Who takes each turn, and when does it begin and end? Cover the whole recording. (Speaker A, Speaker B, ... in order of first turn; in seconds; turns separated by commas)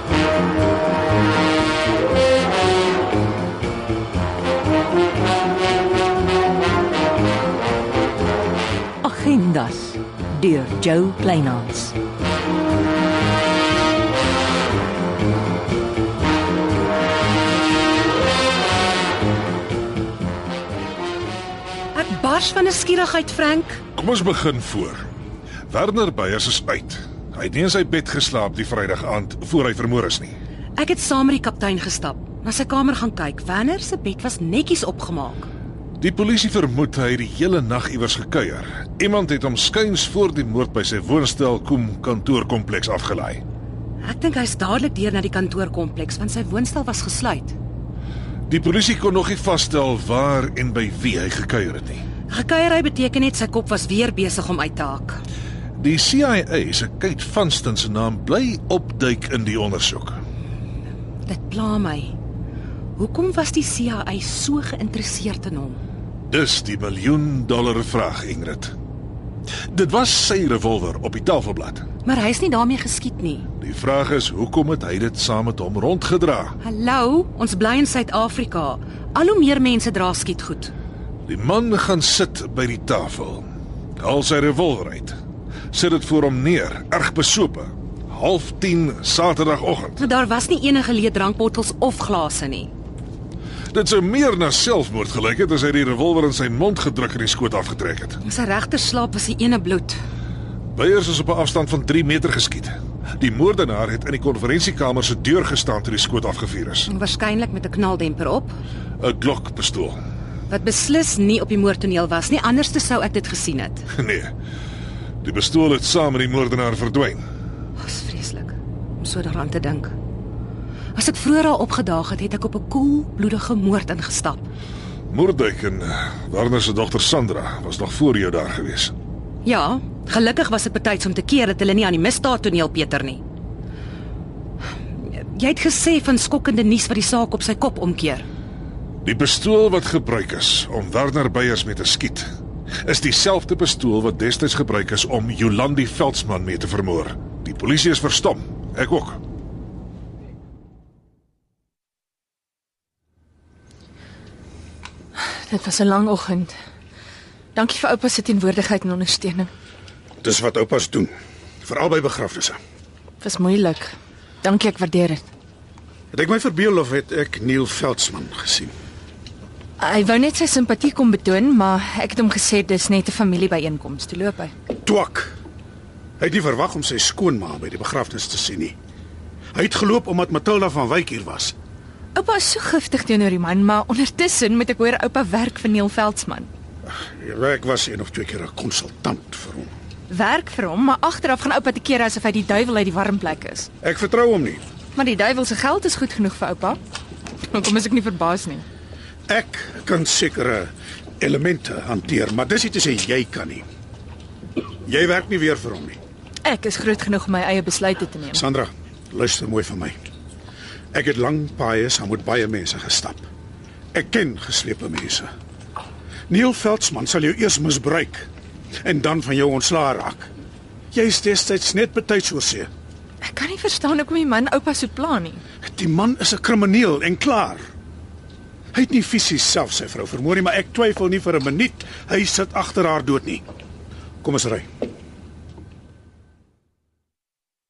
Speaker A: 9.0-11.9, Speaker B: 21.9-23.8, Speaker C: 24.0-25.0, Speaker C: 25.7-30.3, Speaker B: 30.8-35.5, Speaker C: 36.0-43.4, Speaker B: 44.0-47.5, Speaker C: 48.5-52.0, Speaker B: 52.3-55.2, Speaker C: 55.8-60.2, Speaker B: 61.2-62.1, Speaker B: 63.0-65.8, Speaker C: 66.3-68.7, Speaker C: 69.7-71.8, Speaker B: 72.0-73.5, Speaker C: 73.6-76.5, Speaker B: 76.6-80.7, Speaker C: 81.3-83.5, Speaker C: 84.0-85.2, Speaker C: 85.7-90.0, Speaker B: 90.0-92.7, Speaker C: 93.7-98.2, Speaker B: 98.2-100.0, Speaker C: 100.7-106.9, Speaker B: 106.9-108.6, Speaker C: 109.0-110.0, Speaker B: 110.5-113.8, Speaker C: 113.9-114.3, Speaker C: 115.2-117.2, Speaker B: 117.8-119.9, Speaker B: 120.9-124.5, Speaker C: 125.1-128.9, Speaker B: 129.4-133.2, Speaker B: 135.0-138.3, Speaker C: 139.0-142.3, Speaker C: 142.8-149.2, Speaker D: 155.2-156.5, Speaker D: 157.5-159.5, Speaker E: 160.2-162.6, Speaker D: 163.2-163.9, Speaker D: 164.4-165.2, Speaker E: 166.1-168.7, Speaker D: 169.8-174.5, Speaker E: 174.8-175.3, Speaker E: 176.2-178.8, Speaker E: 179.5-181.5, Speaker D: 182.1-186.5, Speaker E: 187.0-189.7, Speaker D: 190.1-193.7, Speaker E: 193.8-194.6, Speaker D: 194.9-196.8, Speaker D: 197.5-198.6, Speaker E: 199.3-203.6, Speaker E: 204.8-206.0, Speaker D: 206.4-208.4, Speaker E: 208.3-209.9, Speaker E: 210.9-213.3, Speaker E: 213.9-215.3, Speaker E: 216.3-218.3, Speaker E: 218.8-220.3, Speaker E: 220.9-222.7, Speaker D: 223.2-225.4, Speaker E: 225.6-227.6, Speaker E: 228.7-233.4, Speaker E: 234.2-234.7